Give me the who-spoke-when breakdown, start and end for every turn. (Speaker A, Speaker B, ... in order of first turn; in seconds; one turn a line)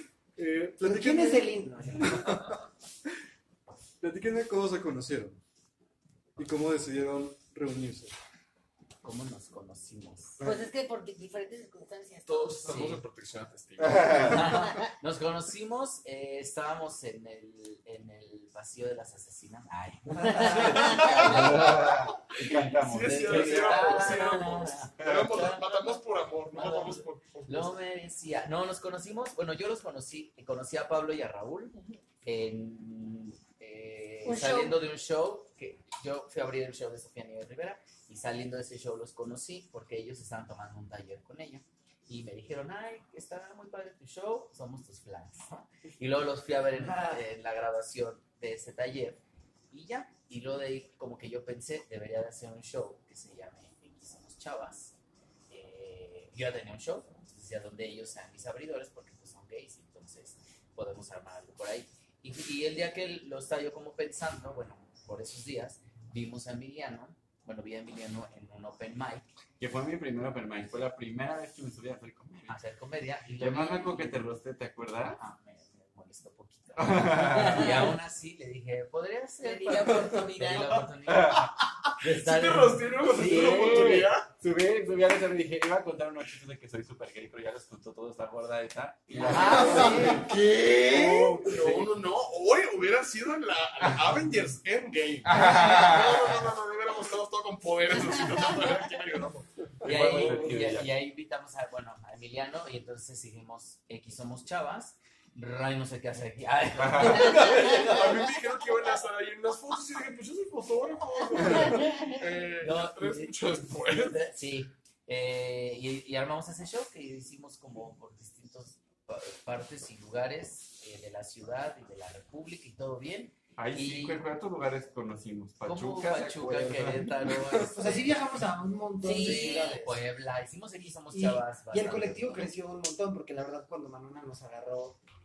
Speaker A: 0.3-2.6
Speaker B: 0.8-2.4
Speaker A: 4.0-5.4
Speaker A: 6.4-8.2
Speaker C: 9.0-10.4
Speaker A: 10.4-10.7
Speaker D: 10.4-13.0
Speaker E: 12.2-14.3
Speaker C: 12.7-13.0
Speaker F: 13.8-14.6
Speaker C: 14.2-22.0
Speaker B: 20.2-21.0
Speaker D: 20.5-21.1
Speaker F: 20.6-24.3
Speaker E: 20.8-22.1
Speaker E: 22.7-27.8
Speaker C: 23.0-25.9
Speaker F: 25.0-25.5
Speaker C: 26.5-55.0
Speaker D: 34.2-34.8
Speaker B: 46.8-47.2
Speaker C: 55.5-69.3
Speaker F: 69.6-72.6
Speaker C: 72.5-74.2
Speaker F: 73.4-75.2
Speaker C: 75.1-84.0
Speaker F: 76.8-77.9
Speaker D: 79.4-80.9
Speaker F: 81.1-81.5
Speaker E: 81.9-84.3
Speaker F: 82.5-91.9
Speaker C: 89.1-90.2
Speaker B: 89.3-90.2
Speaker E: 90.9-100.8
Speaker F: 95.2-96.5
Speaker C: 99.8-108.3
Speaker A: 99.9-100.6
Speaker F: 99.9-100.8
Speaker F: 106.8-107.5
Speaker E: 107.2-114.2
Speaker D: 111.8-112.1
Speaker C: 112.6-124.2
Speaker F: 123.6-127.3
Speaker C: 125.7-128.1
Speaker B: 127.7-130.0
Speaker D: 129.0-129.8
Speaker C: 129.1-132.5
Speaker B: 131.1-135.0